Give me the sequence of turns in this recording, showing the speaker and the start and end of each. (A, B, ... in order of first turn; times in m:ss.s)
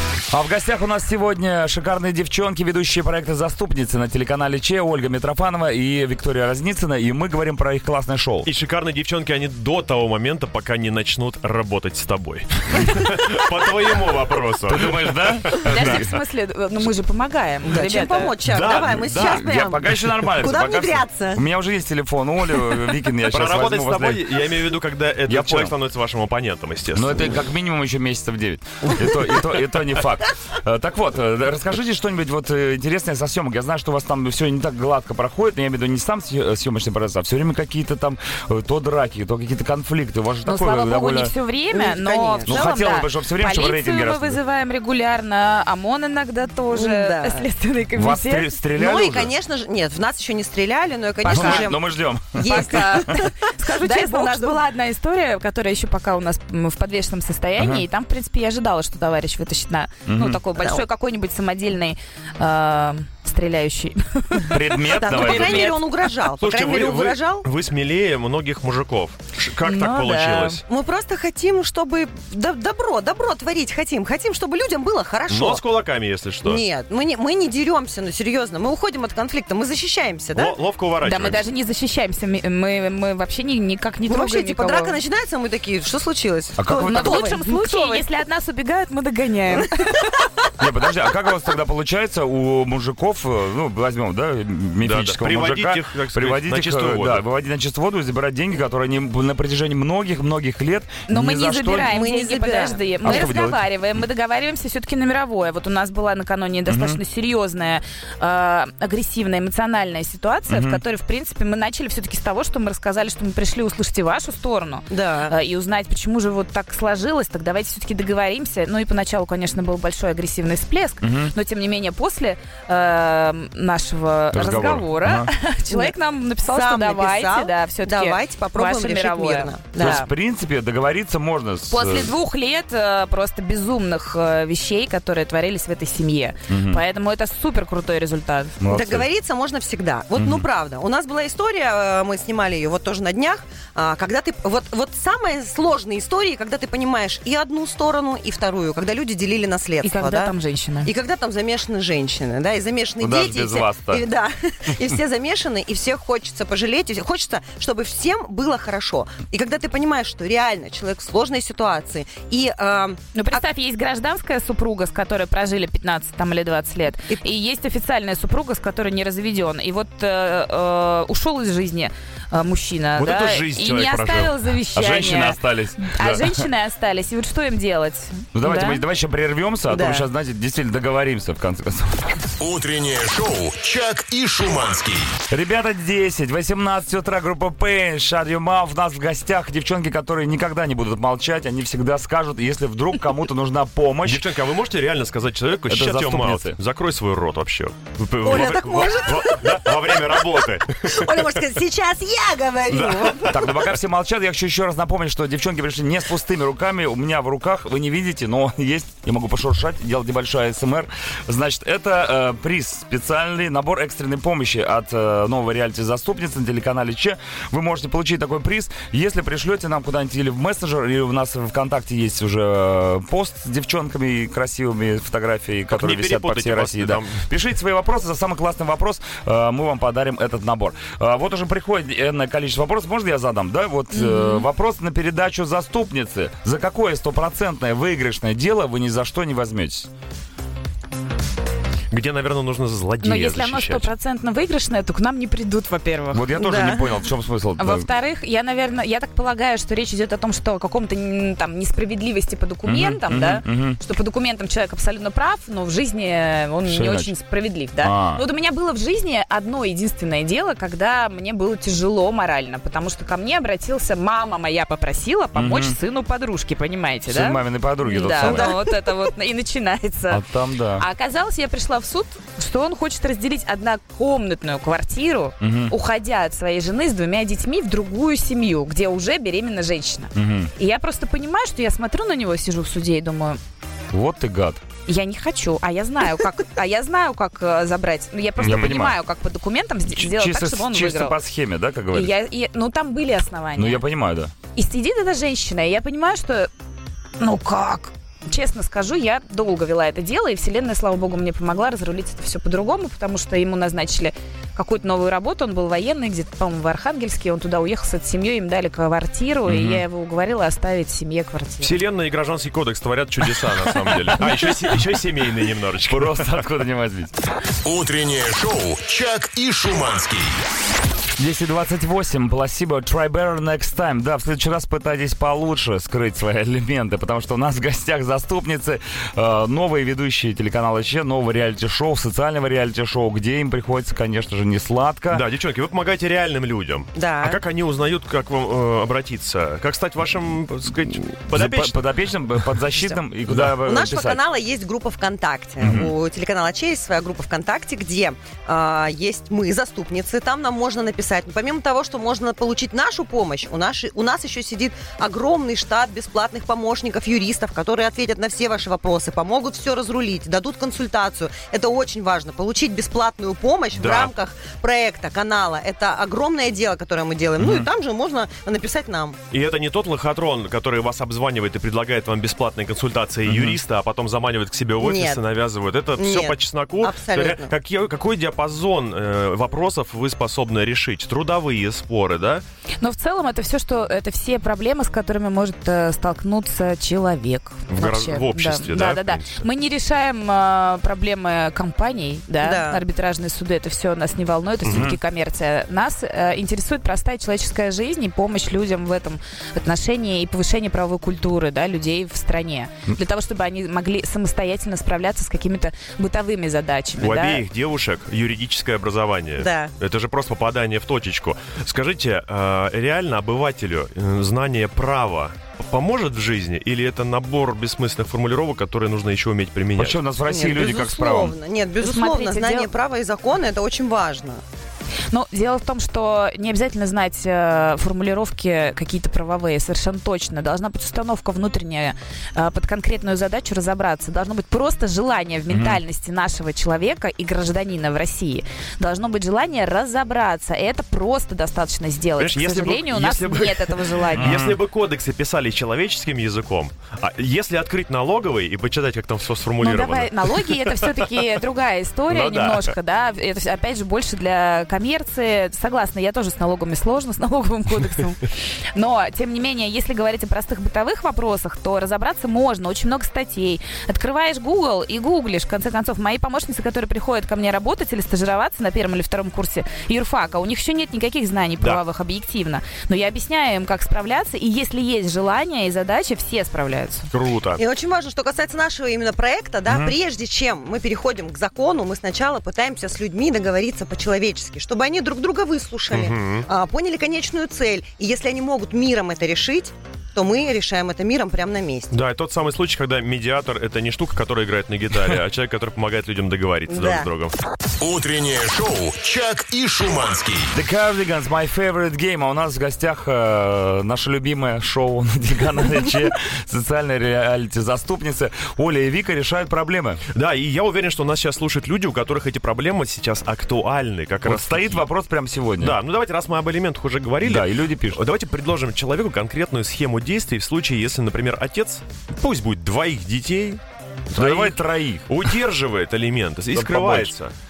0:00.3-0:08.5 A
0:08.4-0:16.0 B
0:14.6-0:16.2 A
0:15.6-0:18.3 C
0:17.6-0:21.4 D
0:18.5-0:19.4 B
0:18.7-0:24.6 A
0:23.3-0:27.3 B
0:25.3-0:25.7 A
0:26.9-0:41.3 A
0:40.4-0:48.5 C
0:41.7-0:42.7 D
0:42.4-0:44.4 A
0:46.7-0:47.5 D
0:47.9-0:49.3 A
0:48.7-0:54.6 D
0:51.2-0:53.2 A
0:51.3-0:51.6 C
0:52.4-1:05.9 C
0:57.6-0:57.8 A
1:00.0-1:00.4 A
1:00.6-1:00.8 D
1:04.5-1:05.7 A
1:04.9-1:07.5 D
1:06.3-1:10.6 B
1:09.6-1:10.6 C
1:10.6-1:15.6 D
1:15.3-1:16.6 B
1:16.4-1:20.6 D
1:20.3-1:21.4 B
1:21.0-1:25.0 C
1:24.1-1:28.0 D
1:26.6-1:27.3 A
1:26.8-1:30.0 C
1:30.6-1:41.9 A
1:34.8-1:37.2 B
1:41.1-2:10.1 C
1:41.7-1:43.3 D
1:43.0-1:43.6 A
1:46.7-1:47.0 A
1:50.5-1:50.8 A
1:54.9-1:55.3 D
2:01.0-2:01.3 A
2:04.3-2:05.3 A
2:05.7-2:05.9 D
2:06.4-2:10.0 D
2:09.8-2:12.1 A
2:11.7-2:18.5 C
2:16.5-2:16.8 A
2:18.6-2:19.1 A
2:18.7-2:43.4 D
2:20.1-2:20.4 A
2:29.8-2:30.9 C
2:33.0-2:34.0 A
2:43.1-2:58.8 C
2:53.0-2:54.4 B
2:54.7-2:56.4 A
2:58.3-3:02.2 A
2:59.7-3:00.1 D
3:02.4-3:05.1 E
3:05.3-3:14.2 A
3:14.0-3:21.4 B
3:15.7-3:16.6 A
3:18.2-3:23.5 D
3:22.7-3:23.3 B
3:23.3-3:59.9 A
3:45.7-3:47.2 B
3:53.9-3:54.5 C
4:01.9-4:03.9 B
4:03.0-4:06.2 C
4:06.1-4:07.9 A
4:06.3-4:07.0 D
4:07.6-4:30.2 C
4:12.6-4:13.8 A
4:16.6-4:17.1 A
4:17.8-4:18.2 A
4:25.3-4:25.8 A
4:27.1-4:28.5 A
4:28.2-4:28.7 D
4:30.1-4:30.8 A
4:30.8-4:43.4 C
4:35.4-4:35.7 A
4:40.1-4:40.5 A
4:43.9-4:44.6 A
4:44.9-4:51.2 C
4:48.4-4:49.0 A
4:48.4-4:48.7 B
4:49.9-4:52.1 A
4:51.9-4:53.8 C
4:53.6-4:54.3 A
4:54.5-4:56.5 C
4:57.2-5:11.8 C
5:09.4-5:09.8 A
5:11.6-5:16.4 B
5:15.8-5:17.2 A
5:17.6-5:20.4 E
5:21.2-5:35.2 A
5:35.1-5:41.8 B
5:36.9-5:37.4 D
5:41.3-5:44.2 A
5:43.3-5:43.6 B
5:43.6-6:09.2 D
5:45.6-5:45.9 A
6:03.7-6:04.1 B
6:07.4-6:07.7 A
6:09.3-6:22.4 B
6:13.3-6:13.6 A
6:14.8-6:15.2 D
6:16.0-6:17.5 D
6:22.8-6:47.4 C
6:27.7-6:29.4 B
6:32.4-6:32.8 D
6:34.6-6:34.9 B
6:34.7-6:35.0 A
6:47.0-7:00.0 B
6:49.4-6:49.7 D
6:59.8-7:01.3 A
7:00.3-7:04.4 D
7:01.8-7:02.7 C
7:05.1-7:24.4 C
7:15.5-7:15.8 A
7:22.2-7:31.2 B
7:24.1-7:24.6 A
7:29.6-7:57.1 C
7:32.1-7:32.7 B
7:57.1-7:57.6 B
7:57.6-8:11.9 D
7:59.7-7:59.9 A
8:05.9-8:06.5 B
8:11.9-8:17.3 B
8:16.7-8:17.1 D
8:17.8-8:20.5 E
8:20.5-8:30.0 A
8:30.1-8:34.8 B
8:34.2-8:35.8 A
8:35.6-8:47.3 B
8:37.2-8:38.0 A
8:44.1-8:45.1 A
8:46.5-8:47.1 A